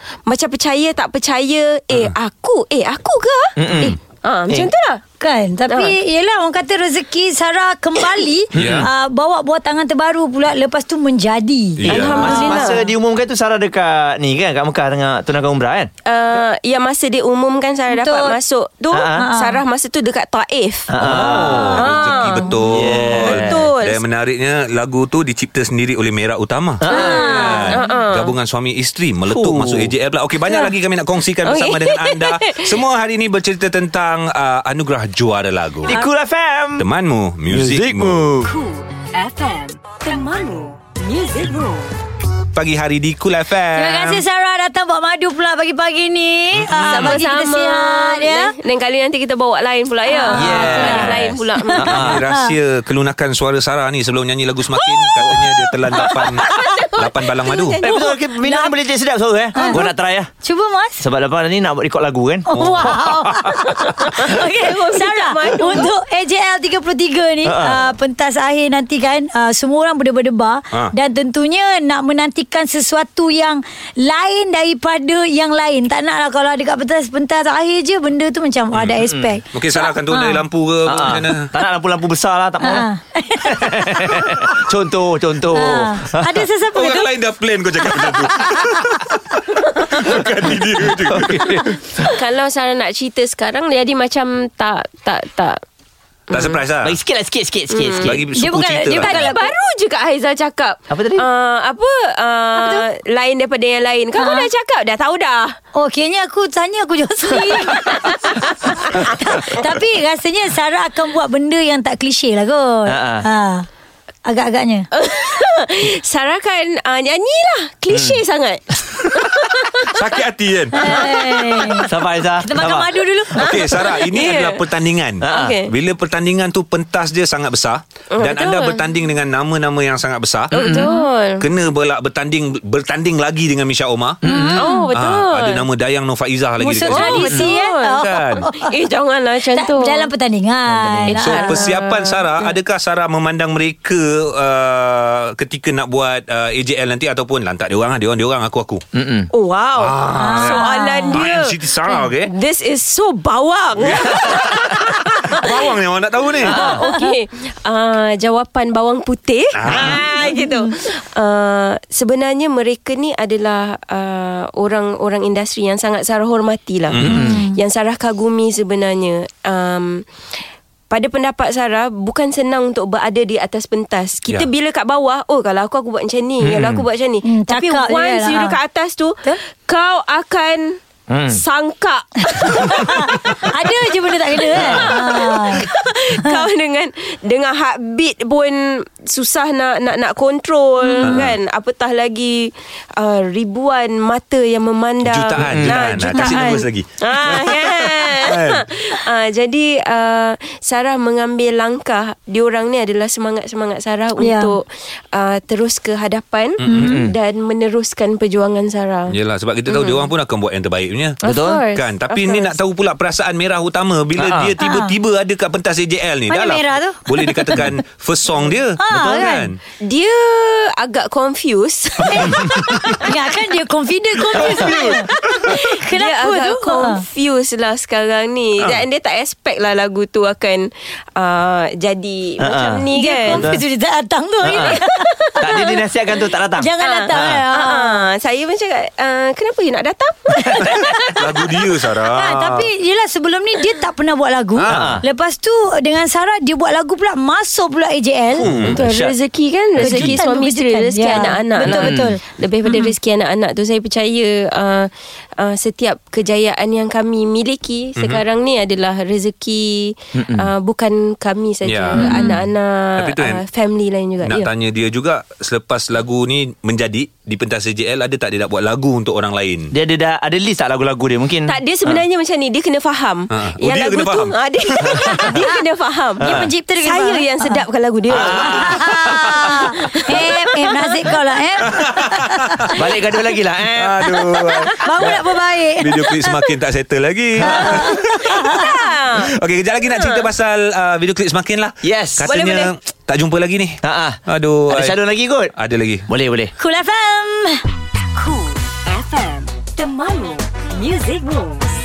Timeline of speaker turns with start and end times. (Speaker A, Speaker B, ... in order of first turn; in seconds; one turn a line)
Speaker A: 0.3-5.0
Speaker B: 3.6-3.9
Speaker C: 5.2-12.8
Speaker A: 5.7-5.9
Speaker B: 8.5-8.8
Speaker D: 8.5-8.9
Speaker D: 11.8-12.4
Speaker B: 11.9-15.9
Speaker A: 11.9-12.8
Speaker A: 16.1-20.9
Speaker C: 17.9-18.3
Speaker B: 18.9-19.3
Speaker C: 19.2-19.6
Speaker B: 20.9-21.9
Speaker D: 21.0-35.9
Speaker A: 21.6-24.0
Speaker B: 22.7-23.7
Speaker B: 26.8-27.7
Speaker C: 26.9-27.8
Speaker A: 26.9-28.3
Speaker B: 29.3-29.9
Speaker A: 31.4-32.7
Speaker B: 35.8-36.8
Speaker D: 36.8-38.3
Speaker B: 37.5-38.5
Speaker E: 38.4-41.9
Speaker D: 42.5-44.2
Speaker C: 43.7-48.5
Speaker D: 46.6-47.2
Speaker A: 46.9-52.0
Speaker C: 50.1-51.1
Speaker B: 50.3-52.2
Speaker C: 51.7-52.5
Speaker D: 51.8-57.8
Speaker A: 56.5-57.8
Speaker B: 57.8-60.3
Speaker C: 57.8-58.7
Speaker C: 59.5-61.0
Speaker B: 61.0-63.1
Speaker D: 62.5-63.5
Speaker C: 62.5-80.4
Speaker A: 64.3-65.9
Speaker B: 67.4-67.8
Speaker D: 79.5-81.5
Speaker B: 80.8-82.9
Speaker C: 82.6-84.2
Speaker B: 83.4-86.4
Speaker C: 85.5-87.1
Speaker D: 86.7-91.7
Speaker B: 91.0-91.8
Speaker A: 92.0-95.6
Speaker A: 96.3-96.6
Speaker D: 96.3-97.0
Speaker B: 96.8-98.3
Speaker A: 97.7-98.1
Speaker D: 98.0-99.3
Speaker C: 98.3-99.5
Speaker A: 99.0-105.6
Speaker B: 100.9-101.2
Speaker C: 102.5-102.8
Speaker C: 104.2-104.5
Speaker C: 105.7-113.7
Speaker A: 107.6-108.2
Speaker B: 112.8-113.2
Speaker C: 114.2-114.9
Speaker A: 114.9-120.0
Speaker B: 117.9-118.2
Speaker D: 119.8-121.1
Speaker C: 120.7-121.8
Speaker B: 121.9-122.9
Speaker C: 122.4-123.5
Speaker D: 123.3-130.8
Speaker A: 123.4-124.6
Speaker B: 125.2-125.5
Speaker A: 125.3-125.7
Speaker A: 128.1-128.8
Speaker A: 130.5-131.4
Speaker C: 130.7-131.0
Speaker D: 131.4-134.2
Speaker B: 134.2-134.7
Speaker C: 134.3-134.9
Speaker A: 134.6-135.6
Speaker D: 134.9-137.4
Speaker C: 136.6-138.7
Speaker A: 136.9-140.1
Speaker D: 138.0-138.4
Speaker C: 139.6-141.6
Speaker B: 140.7-141.2
Speaker D: 141.1-148.8
Speaker A: 141.2-142.5
Speaker B: 148.9-149.3
Speaker A: 149.3-151.6
Speaker D: 149.8-150.6
Speaker C: 150.2-151.2
Speaker D: 151.1-152.3
Speaker A: 152.3-155.7
Speaker D: 153.7-156.7
Speaker A: 156.4-167.0
Speaker B: 156.4-156.8
Speaker D: 159.5-160.0
Speaker C: 160.2-160.7
Speaker D: 166.9-167.3
Speaker B: 167.0-167.3
Speaker C: 167.1-167.5
Speaker A: 167.5-170.1
Speaker A: 170.9-180.8
Speaker B: 176.4-176.8
Speaker C: 177.2-178.6
Speaker B: 181.1-181.4
Speaker A: 181.3-183.5
Speaker C: 182.6-185.6
Speaker B: 184.5-184.9
Speaker A: 184.5-209.2
Speaker C: 190.8-191.2
Speaker D: 191.0-191.3
Speaker D: 195.0-198.6
Speaker C: 204.2-204.5
Speaker D: 206.6-206.9
Speaker C: 206.7-207.0
Speaker B: 206.7-207.1
Speaker D: 209.1-219.6
Speaker A: 209.7-210.1
Speaker A: 211.2-212.6
Speaker B: 211.2-211.6
Speaker B: 214.2-214.5
Speaker C: 214.6-214.9
Speaker C: 216.3-217.6
Speaker C: 218.8-219.5
Speaker B: 218.9-219.3
Speaker A: 219.8-223.1
Speaker C: 222.1-227.0
Speaker B: 224.3-225.1
Speaker A: 224.5-233.4
Speaker B: 232.4-233.6
Speaker C: 232.9-235.8
Speaker B: 234.4-234.7
Speaker B: 235.4-237.4
Speaker C: 236.6-238.0
Speaker A: 236.8-240.9
Speaker D: 241.1-242.7
Speaker C: 242.1-248.4
Speaker D: 244.6-245.0
Speaker B: 244.7-245.0
Speaker D: 248.4-248.8
Speaker B: 248.4-249.1
Speaker A: 248.7-264.5
Speaker C: 249.8-252.9
Speaker B: 249.8-250.1
Speaker B: 251.6-252.1
Speaker D: 258.0-258.2
Speaker B: 260.1-260.5
Speaker D: 261.6-262.1
Speaker C: 262.0-262.3
Speaker D: 263.0-263.4
Speaker D: 264.2-269.7
Speaker B: 269.7-271.5
Speaker A: 271.5-278.8
Speaker D: 273.3-275.3
Speaker B: 274.9-275.3
Speaker B: 276.2-276.5
Speaker C: 276.2-277.6
Speaker B: 278.1-279.4
Speaker C: 278.5-282.2
Speaker A: 280.1-280.8
Speaker D: 281.7-282.7
Speaker B: 282.7-284.0
Speaker D: 283.8-285.2
Speaker C: 284.8-286.3
Speaker D: 285.8-288.4
Speaker C: 287.4-288.7
Speaker A: 288.3-289.3
Speaker D: 289.2-295.0
Speaker A: 289.9-290.3
Speaker B: 291.8-292.3
Speaker A: 292.3-292.7
Speaker B: 293.8-294.2
Speaker B: 294.7-295.5
Speaker D: 295.6-296.1
Speaker B: 296.1-296.5
Speaker C: 296.6-297.6
Speaker E: 298.1-301.7